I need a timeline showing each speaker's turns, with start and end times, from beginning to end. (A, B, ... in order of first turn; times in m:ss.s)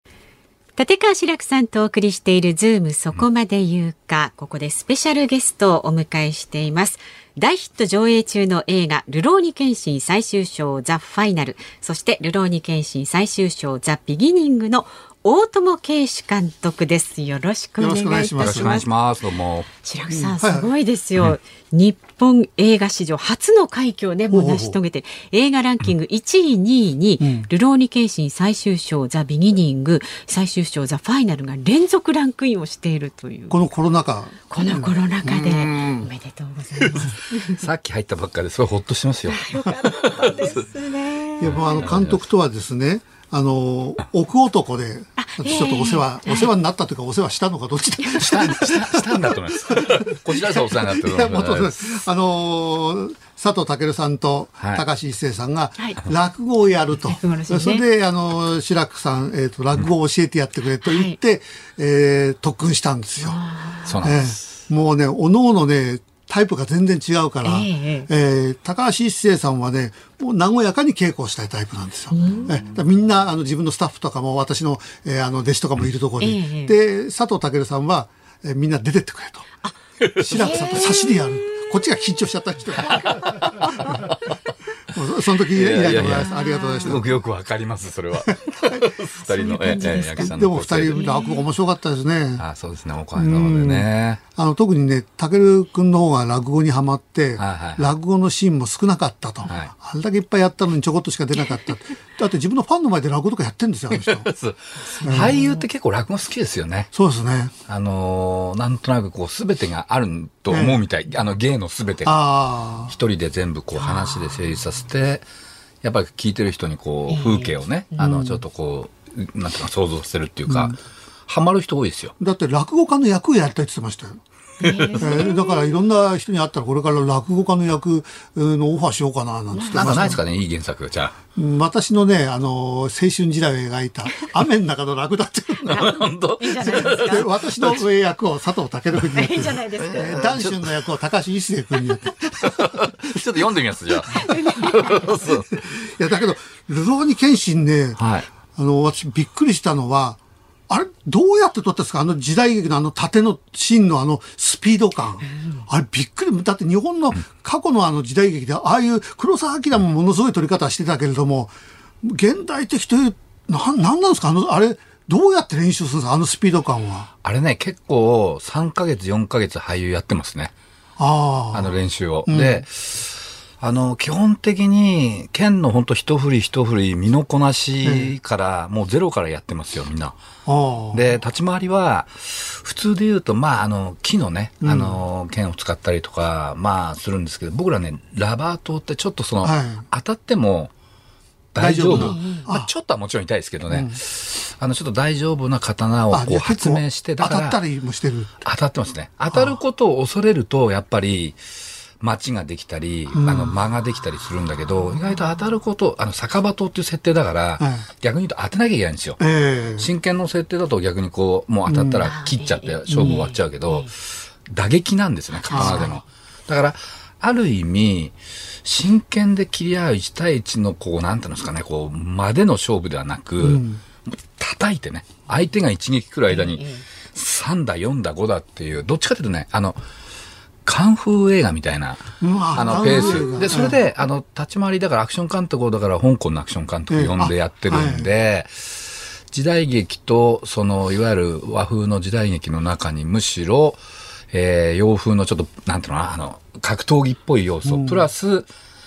0:00.8-0:18.9 A
0:17.8-0:18.8 B
0:18.4-0:19.7 C
0:19.8-0:33.6 A
0:20.1-0:20.7 B
0:24.3-0:24.8 B
0:27.2-0:27.5 B
0:33.5-0:36.1 B
0:34.5-0:37.6 A
0:37.0-0:40.6 C
0:39.3-0:41.8 A
0:41.4-1:03.4 B
0:41.4-0:42.2 C
0:45.2-0:46.5 A
0:48.0-0:48.3 A
0:48.2-0:51.7 C
0:57.1-0:57.8 A
1:00.8-1:01.2 A
1:03.2-1:04.0 A
1:03.8-1:04.4 C
1:04.0-1:19.4 B
1:07.4-1:08.1 A
1:12.1-1:12.6 A
1:16.2-1:16.8 A
1:20.0-1:20.6 C
1:20.2-1:24.0 B
1:20.3-1:21.7 A
1:22.9-1:24.3 C
1:24.9-1:27.1 B
1:25.5-1:31.0 C
1:26.1-1:27.0 A
1:29.2-1:30.3 A
1:29.6-1:32.4 B
1:30.9-1:31.4 A
1:32.4-1:34.2 C
1:33.2-1:44.3 B
1:37.4-1:37.9 C
1:39.4-1:39.7 C
1:43.9-1:46.9 C
1:45.0-1:45.6 A
1:45.0-1:45.4 B
1:46.9-1:47.5 B
1:47.7-1:52.2 C
1:50.5-1:50.8 B
1:52.0-1:52.9 B
1:52.9-1:55.2 C
1:53.8-1:54.5 A
1:55.8-2:02.1 C
1:57.1-1:58.1 A
1:58.0-1:58.4 B
2:00.5-2:00.7 B
2:02.2-2:04.2 B
2:04.6-2:05.7 A
2:04.6-2:05.0 C
2:05.0-2:10.2 B
2:09.5-2:10.2 A
2:09.7-2:11.2 C
2:11.3-2:16.0 B
2:15.7-2:17.3 A
2:15.7-2:17.8 C
2:16.6-2:23.5 B
2:19.1-2:20.3 A
2:19.8-2:20.7 C
2:22.3-2:25.6 C
2:24.1-2:28.0 B
2:24.1-2:25.1 A
2:28.0-2:28.3 C
2:28.5-2:47.1 B
2:35.3-2:35.6 A
2:47.2-2:50.5 C
2:51.0-2:51.7 B
2:51.5-3:00.2 C
2:52.2-2:52.6 B
2:57.8-2:58.1 B
3:00.4-3:01.1 B
3:00.9-3:10.7 C
3:04.6-3:05.0 B
3:09.4-3:09.8 B
3:11.5-3:17.6 C
3:11.6-3:12.7 B
3:11.9-3:12.5 A
3:13.7-3:14.0 B
3:16.1-3:18.4 B
3:18.4-3:21.4 C
3:19.3-3:19.6 B
3:22.0-3:29.2 C
3:23.1-3:23.6 B
3:27.6-3:27.9 B
3:29.2-3:29.9 B
3:29.8-3:49.8 C
3:31.7-3:32.1 B
3:32.0-3:33.9 A
3:32.9-3:33.2 B
3:35.3-3:36.0 A
3:35.5-3:36.0 B
3:43.4-3:43.8 B
3:46.3-3:46.8 A
3:50.6-4:03.8 C
3:52.2-3:53.8 B
3:52.7-3:53.7 A
3:56.9-3:58.1 B
4:04.3-4:08.5 C
4:07.6-4:08.1 B